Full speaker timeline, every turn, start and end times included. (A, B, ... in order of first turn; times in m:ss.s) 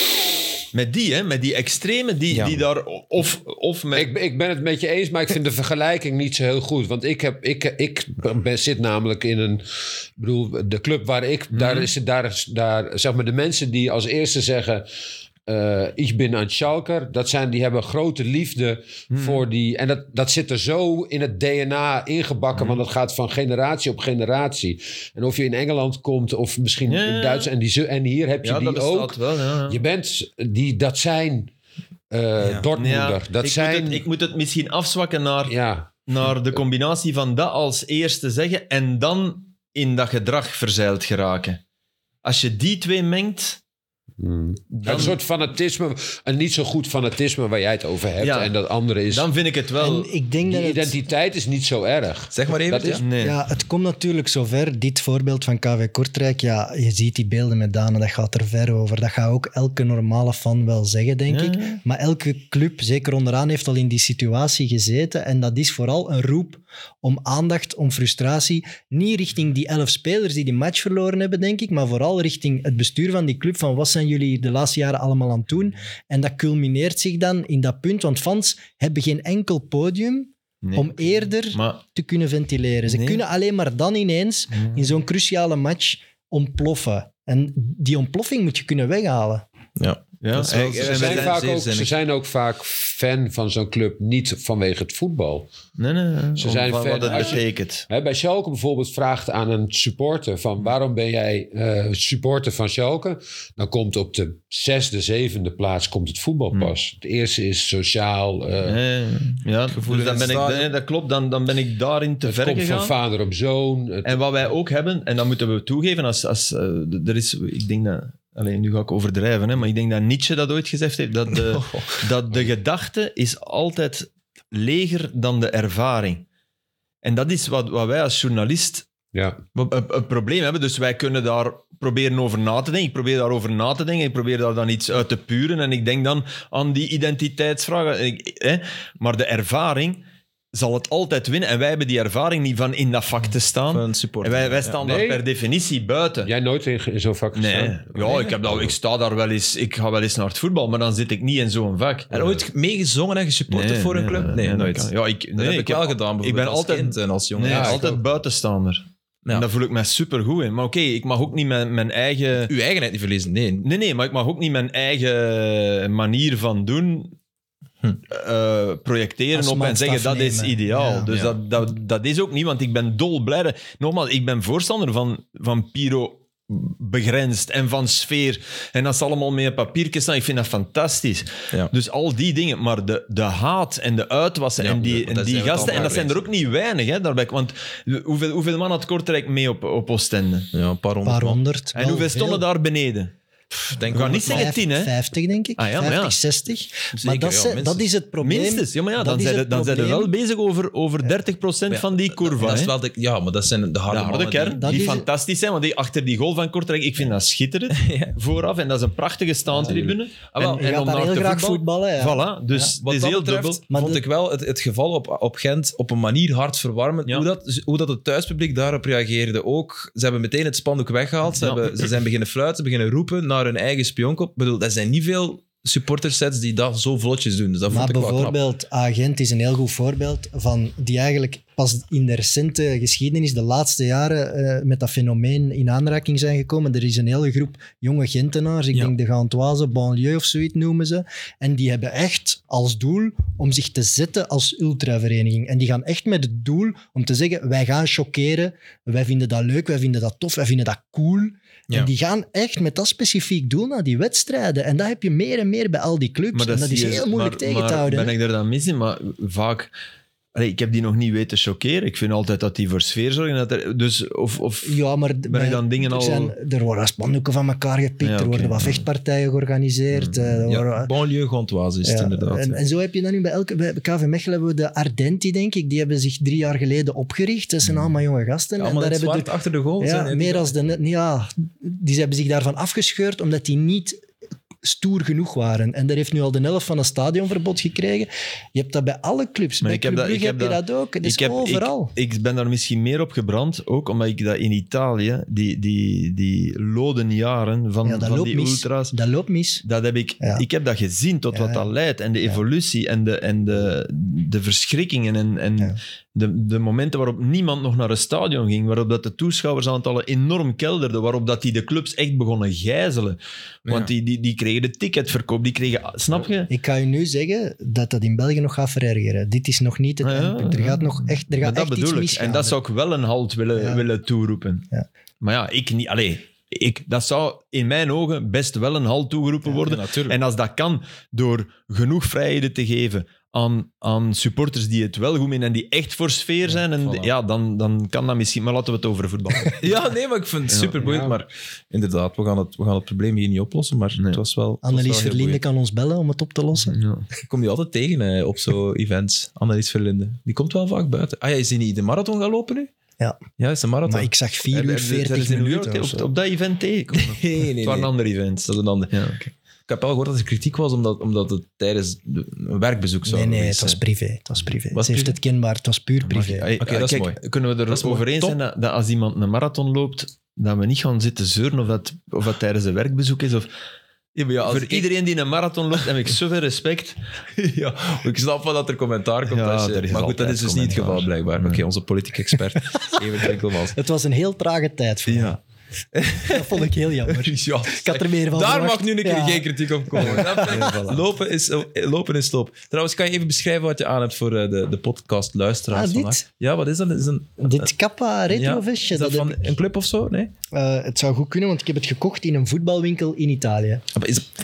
0:00.7-0:04.1 A
0:02.3-0:02.6 B
0:03.9-0:14.8 C
0:11.5-0:11.9 A
0:15.4-0:31.5 C
0:19.1-0:19.4 A
0:26.9-0:27.5 A
0:28.4-0:29.8 A
0:32.1-0:34.0 C
0:32.4-0:32.7 B
0:32.8-0:35.5 A
0:35.4-0:36.6 C
0:36.0-0:41.6 A
0:42.2-0:43.6 A
0:44.2-0:49.3 C
0:44.7-0:45.2 A
0:48.2-0:48.5 A
0:49.1-0:50.1 A
0:49.8-0:51.0 D
0:50.4-0:53.0 C
0:52.3-0:53.0 B
0:53.0-0:53.4 A
0:53.2-1:29.4 D
1:01.3-1:01.8 A
1:20.6-1:21.8 A
1:22.9-1:23.2 A
1:24.5-1:24.9 A
1:29.8-1:31.9 B
1:30.2-1:31.4 A
1:30.8-1:35.5 C
1:35.8-1:37.8 A
1:36.4-1:48.8 C
1:48.6-1:52.9 A
1:49.7-1:50.7 B
1:52.2-1:54.2 C
1:54.0-2:06.2 A
2:01.5-2:02.0 B
2:07.0-2:08.9 A
2:09.1-2:09.4 C
2:09.6-2:26.3 A
2:23.7-2:24.8 B
2:24.8-2:25.2 C
2:26.2-2:28.7 C
2:27.3-2:32.1 A
2:28.0-2:28.4 B
2:32.1-2:37.9 B
2:32.1-2:32.4 C
2:33.5-2:42.5 A
2:37.4-2:38.0 C
2:42.4-2:43.7 B
2:43.6-2:47.2 A
2:48.1-3:10.5 A
2:49.3-2:51.1 D
2:51.1-2:51.4 B
3:04.6-3:06.2 B
3:10.5-3:11.4 B
3:11.0-3:12.4 D
3:11.7-3:13.1 A
3:13.7-3:14.5 B
3:13.9-3:14.9 A
3:13.9-3:20.1 D
3:15.6-3:16.2 A
3:17.0-3:17.9 B
3:18.2-3:22.7 A
3:21.7-3:24.7 B
3:23.9-3:33.6 A
3:24.6-3:25.1 D
3:27.8-3:28.2 B
3:29.6-3:30.6 B
3:30.4-3:32.7 D
3:32.8-3:48.4 B
3:33.7-3:34.0 D
3:41.4-3:41.9 A
3:47.7-4:18.1 D
4:16.3-4:19.7 A
4:20.3-4:26.3 A
4:24.6-4:30.9 D
4:28.0-4:28.8 A
4:29.9-4:30.4 A
4:30.5-4:32.6 B
4:31.8-4:44.0 D
4:38.6-4:40.5 B
4:44.6-4:51.9 D
4:49.6-4:58.9 A
4:57.8-4:59.6 D
4:59.6-5:16.5 A
5:01.3-5:01.7 D
5:16.5-5:22.6 D
5:20.0-5:24.7 A
5:23.6-5:23.8 D
5:25.2-5:39.7 A
5:29.4-5:30.2 B
5:36.5-5:37.1 B
5:39.6-5:45.4 B
5:40.5-5:40.9 A
5:40.8-5:41.2 C
5:44.0-5:44.2 A
5:44.6-5:46.8 D
5:46.7-5:47.1 A
5:47.2-5:52.7 B
5:53.4-5:54.1 B
5:53.8-5:56.1 D
5:54.5-5:59.3 A
5:57.0-5:57.9 B
5:58.5-5:59.0 B
5:59.7-6:03.8 B
6:03.0-6:06.5 D
6:04.7-6:05.2 B
6:06.0-6:13.5 A
6:06.6-6:08.4 B
6:14.1-6:14.9 B
6:14.4-6:17.0 A
6:17.4-6:23.8 B
6:19.2-6:21.6 A
6:22.7-6:23.0 D
6:23.7-6:25.4 D
6:25.1-6:25.4 A
6:25.9-6:37.7 B
6:26.3-6:30.7 D
6:30.0-6:31.0 A
6:35.7-6:36.2 D
6:37.4-6:39.4 D
6:38.3-6:40.3 B
6:40.5-6:43.8 D
6:43.9-6:44.3 B